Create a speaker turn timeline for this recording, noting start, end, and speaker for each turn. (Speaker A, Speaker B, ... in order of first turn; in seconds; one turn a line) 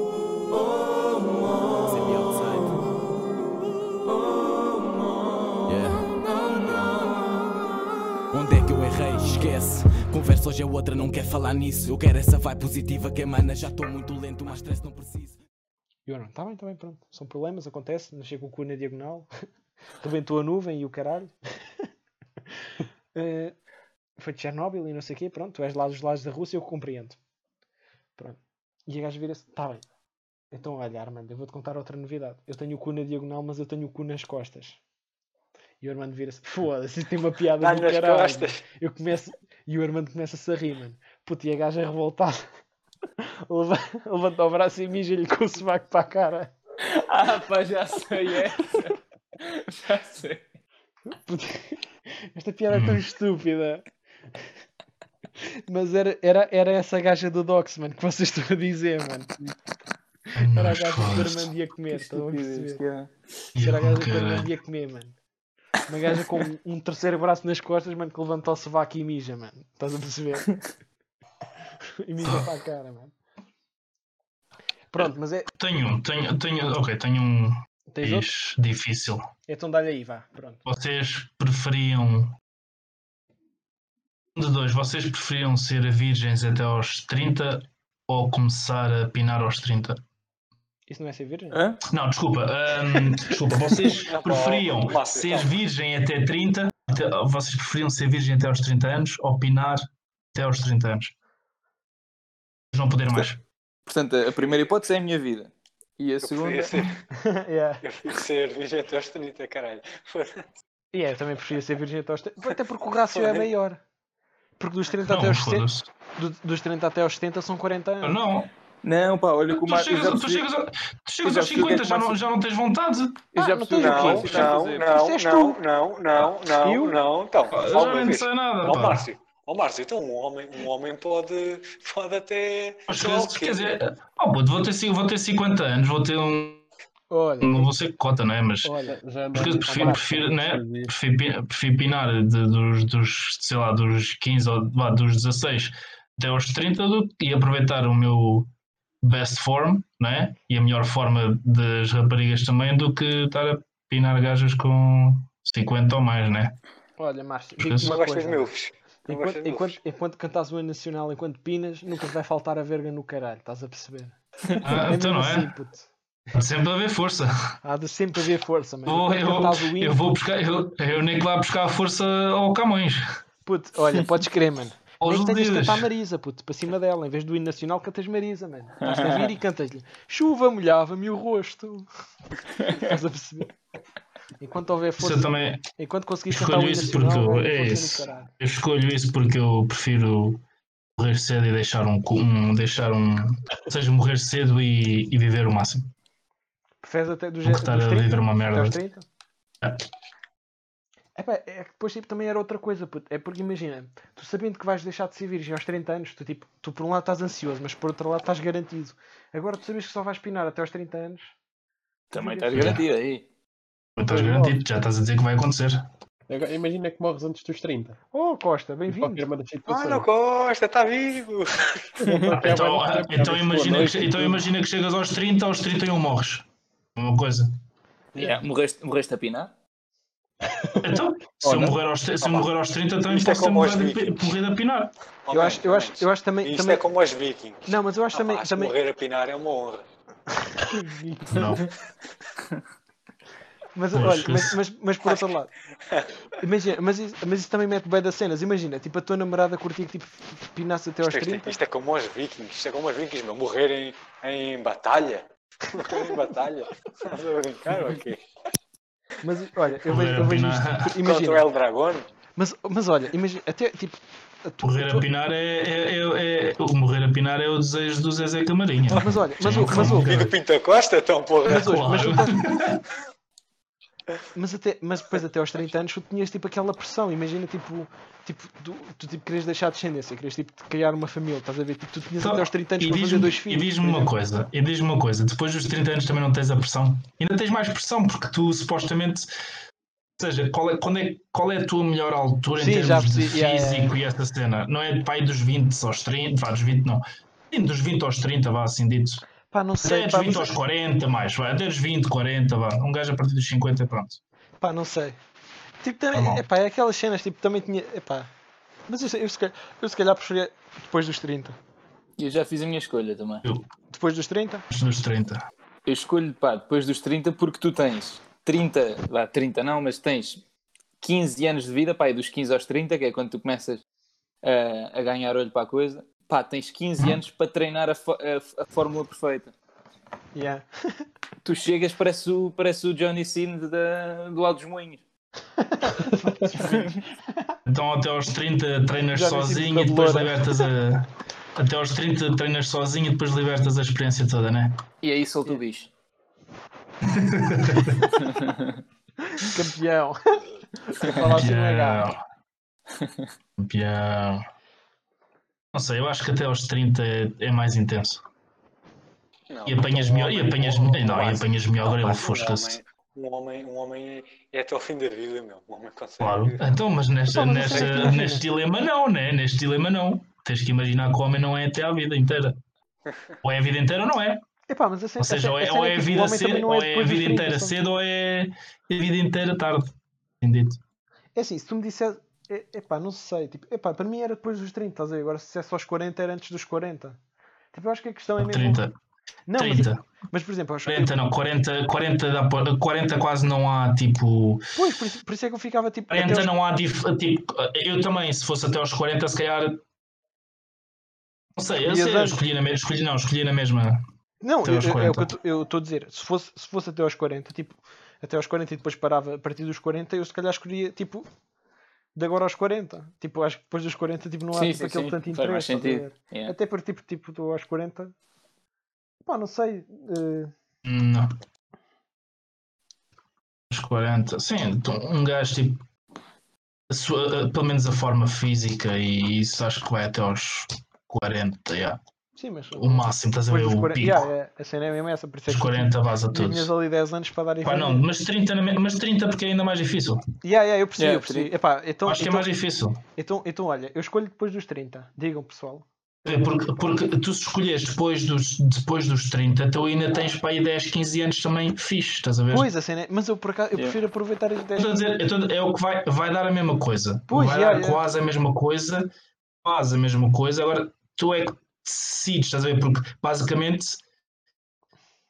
Speaker A: 1.3-3.0
Speaker A: 5.7-7.0
Speaker A: 8.3-15.4
Speaker B: 16.1-19.3
Speaker B: 20.0-21.3
Speaker B: 23.1-23.5
Speaker B: 24.2-27.2
Speaker B: 28.2-29.8
Speaker B: 30.5-34.8
Speaker B: 35.8-42.4
Speaker C: 37.6-38.6
Speaker B: 43.2-46.5
Speaker D: 46.8-50.4
Speaker B: 51.1-51.8
Speaker B: 52.3-53.8
Speaker E: 52.7-53.0
Speaker B: 55.7-59.3
Speaker E: 60.4-61.5
Speaker B: 60.4-62.8
Speaker D: 61.9-63.1
Speaker E: 63.5-64.5
Speaker B: 63.6-65.1
Speaker B: 65.8-70.6
Speaker B: 72.0-73.1
Speaker E: 72.2-72.5
Speaker B: 74.9-75.5
Speaker E: 75.6-79.3
Speaker B: 77.9-78.3
Speaker B: 79.5-80.6
Speaker E: 80.7-82.3
Speaker E: 84.3-90.0
Speaker B: 90.9-91.6
Speaker D: 91.5-91.8
Speaker E: 91.9-101.1
Speaker C: 94.0-95.5
Speaker E: 102.7-103.4
Speaker D: 103.9-106.7
Speaker C: 106.2-107.0
Speaker B: 107.1-107.8
Speaker C: 107.8-110.4
Speaker B: 110.9-113.8
Speaker C: 113.1-113.5
Speaker B: 114.6-118.2
Speaker E: 115.0-115.9
Speaker E: 118.0-118.5
Speaker D: 118.8-120.5
Speaker E: 119.5-123.2
Speaker D: 121.2-122.2
Speaker D: 123.3-124.9
Speaker B: 123.3-125.6
Speaker C: 123.7-133.8
Speaker B: 126.6-127.0
Speaker E: 127.5-129.1
Speaker E: 132.9-136.7
Speaker B: 137.1-137.7
Speaker E: 137.4-138.7
Speaker B: 138.6-139.0
Speaker F: 138.9-140.9
Speaker E: 139.3-148.5
Speaker B: 139.6-140.1
Speaker E: 149.0-156.6
Speaker B: 157.0-158.5
Speaker E: 157.6-157.9
Speaker C: 157.8-159.8
Speaker B: 159.1-164.2
Speaker E: 164.6-165.5
Speaker B: 164.8-165.9
Speaker E: 166.3-167.3
Speaker B: 167.6-170.0
Speaker E: 168.8-173.0
Speaker B: 173.4-181.9
Speaker E: 175.0-175.9
Speaker D: 178.8-179.2
Speaker B: 182.7-183.5
Speaker B: 184.4-188.3
Speaker E: 185.0-185.6
Speaker E: 186.3-190.4
Speaker E: 191.0-195.9
Speaker B: 196.8-199.0
Speaker E: 197.4-198.8
Speaker B: 201.2-211.3
Speaker D: 212.1-213.2
Speaker B: 212.1-212.8
Speaker E: 212.5-212.8
Speaker E: 214.0-215.8
Speaker B: 214.1-214.6
Speaker F: 216.3-218.0
Speaker B: 218.1-219.3
Speaker F: 218.9-220.1
Speaker C: 219.7-222.0
Speaker B: 222.0-222.3
Speaker F: 222.1-224.4
Speaker E: 222.3-226.4
Speaker E: 226.9-227.5
Speaker D: 228.2-229.5
Speaker F: 230.5-231.7
Speaker E: 230.8-234.9
Speaker C: 232.2-232.5
Speaker C: 233.1-234.2
Speaker C: 235.2-239.8
Speaker B: 235.3-236.8
Speaker B: 237.7-238.7
Speaker B: 240.6-241.6
Speaker E: 241.2-241.7
Speaker B: 243.7-245.5
Speaker E: 243.9-244.6
Speaker B: 246.4-251.6
Speaker C: 251.0-258.2
Speaker B: 259.2-261.4
Speaker E: 259.9-260.9
Speaker C: 261.0-262.1
Speaker B: 262.4-265.1
Speaker E: 264.6-270.3
Speaker C: 268.9-271.7
Speaker B: 269.0-270.1
Speaker B: 271.4-272.5
Speaker E: 271.4-272.8
Speaker B: 274.3-284.1
Speaker E: 282.2-289.3
Speaker E: 290.2-299.2
Speaker B: 292.6-294.0
Speaker B: 299.5-300.6
Speaker E: 299.8-304.2
Speaker B: 304.6-305.2
Speaker B: 305.8-308.3
Speaker E: 306.1-306.4
Speaker B: 308.9-311.6
Speaker D: 312.2-313.4
Speaker B: 313.9-314.6
Speaker E: 314.7-315.4
Speaker D: 315.9-320.4
Speaker D: 321.0-323.8
Speaker D: 324.4-329.5
Speaker B: 330.3-330.6
Speaker D: 331.4-335.0
Speaker B: 335.6-337.5
Speaker D: 336.5-337.0
Speaker E: 337.6-344.8
Speaker B: 339.1-340.4
Speaker D: 345.0-345.9
Speaker E: 347.0-348.2
Speaker D: 348.2-348.7
Speaker B: 349.4-352.1
Speaker E: 351.2-352.2
Speaker E: 353.6-354.4
Speaker E: 355.7-358.2
Speaker C: 359.5-366.7
Speaker E: 359.6-362.8
Speaker E: 366.2-372.6
Speaker B: 367.3-368.4
Speaker C: 367.6-368.1
Speaker E: 373.4-374.4
Speaker B: 374.7-377.8
Speaker E: 375.2-380.8
Speaker B: 381.4-387.2
Speaker B: 387.7-388.8
Speaker E: 388.4-388.9
Speaker B: 389.5-391.1
Speaker E: 389.6-390.0
Speaker E: 390.9-394.6
Speaker B: 394.8-396.5
Speaker E: 396.1-399.8
Speaker E: 401.6-404.0
Speaker B: 401.8-402.4
Speaker B: 404.4-411.3
Speaker E: 404.6-405.3
Speaker B: 412.1-418.1
Speaker D: 414.5-416.5
Speaker B: 419.2-420.5
Speaker E: 420.8-421.3
Speaker E: 423.7-425.8
Speaker E: 426.9-432.0
Speaker B: 432.3-438.1
Speaker E: 432.7-434.3
Speaker E: 435.5-436.7
Speaker E: 437.6-440.2
Speaker B: 440.4-442.5
Speaker D: 441.0-441.5
Speaker E: 442.1-443.0
Speaker B: 443.1-445.9
Speaker E: 446.2-452.7
Speaker B: 452.5-455.0
Speaker E: 454.8-459.1
Speaker B: 457.3-458.0
Speaker E: 459.6-464.0